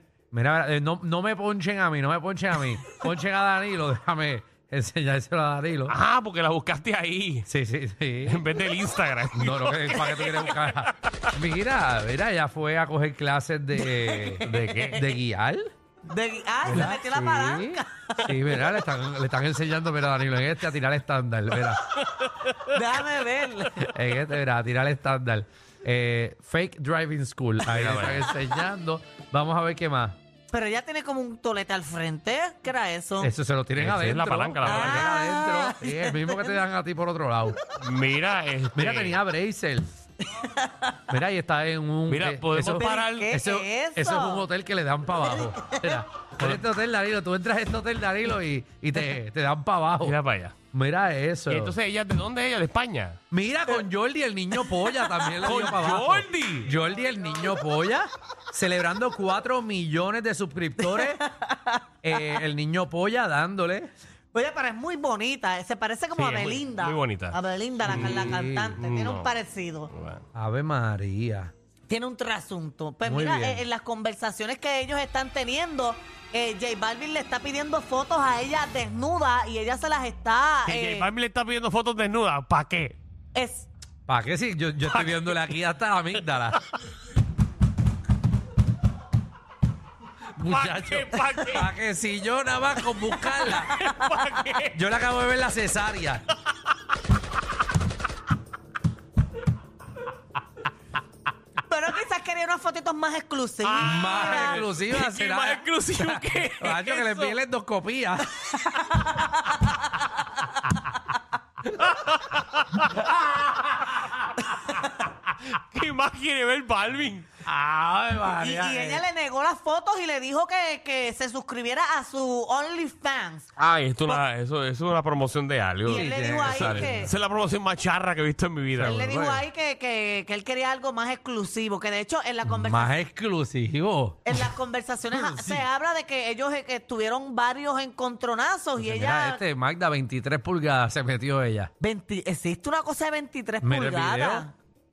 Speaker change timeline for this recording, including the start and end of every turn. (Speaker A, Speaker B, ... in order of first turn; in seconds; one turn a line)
Speaker A: 0.3-6.0
Speaker B: 5.9-7.5
Speaker A: 7.5-8.5
Speaker B: 8.2-11.3
Speaker A: 9.3-15.7
Speaker C: 13.7-15.1
Speaker B: 14.6-15.0
Speaker C: 16.0-18.6
Speaker A: 16.6-21.9
Speaker B: 21.9-22.6
Speaker C: 22.6-23.9
Speaker A: 23.8-30.2
Speaker B: 27.6-28.4
Speaker C: 30.5-33.3
Speaker A: 33.2-37.6
Speaker B: 33.8-35.1
Speaker C: 34.6-36.6
Speaker B: 37.8-39.2
Speaker A: 38.8-39.9
Speaker C: 40.4-41.1
Speaker A: 41.1-50.1
Speaker B: 42.1-43.3
Speaker C: 42.8-44.5
Speaker C: 45.3-46.0
Speaker B: 46.4-46.6
Speaker B: 50.0-50.5
Speaker A: 50.7-51.8
Speaker B: 51.5-53.2
Speaker A: 53.3-61.2
Speaker C: 54.5-55.5
Speaker B: 55.4-56.7
Speaker C: 60.8-62.4
Speaker A: 62.0-63.9
Speaker C: 64.3-69.9
Speaker B: 66.1-69.3
Speaker A: 67.8-68.8
Speaker B: 69.9-70.2
Speaker A: 70.3-71.5
Speaker C: 71.9-81.1
Speaker A: 73.0-73.6
Speaker B: 80.7-83.0
Speaker C: 83.3-83.7
Speaker A: 84.1-86.6
Speaker B: 84.8-85.5
Speaker B: 86.2-86.8
Speaker A: 90.3-93.7
Speaker B: 90.4-91.7
Speaker B: 93.5-94.8
Speaker C: 93.5-94.1
Speaker A: 94.7-96.2
Speaker C: 101.7-104.6
Speaker B: 103.6-107.4
Speaker A: 103.8-108.5
Speaker C: 108.5-110.3
Speaker B: 111.7-113.1
Speaker B: 113.6-117.3
Speaker A: 117.4-119.0
Speaker C: 118.2-123.5
Speaker B: 123.6-129.0
Speaker A: 125.8-127.1
Speaker C: 125.8-127.1
Speaker A: 128.7-129.4
Speaker C: 128.8-133.0
Speaker A: 132.4-134.5
Speaker C: 134.2-139.4
Speaker A: 135.1-135.6
Speaker A: 138.8-141.7
Speaker C: 141.8-144.5
Speaker A: 143.6-144.5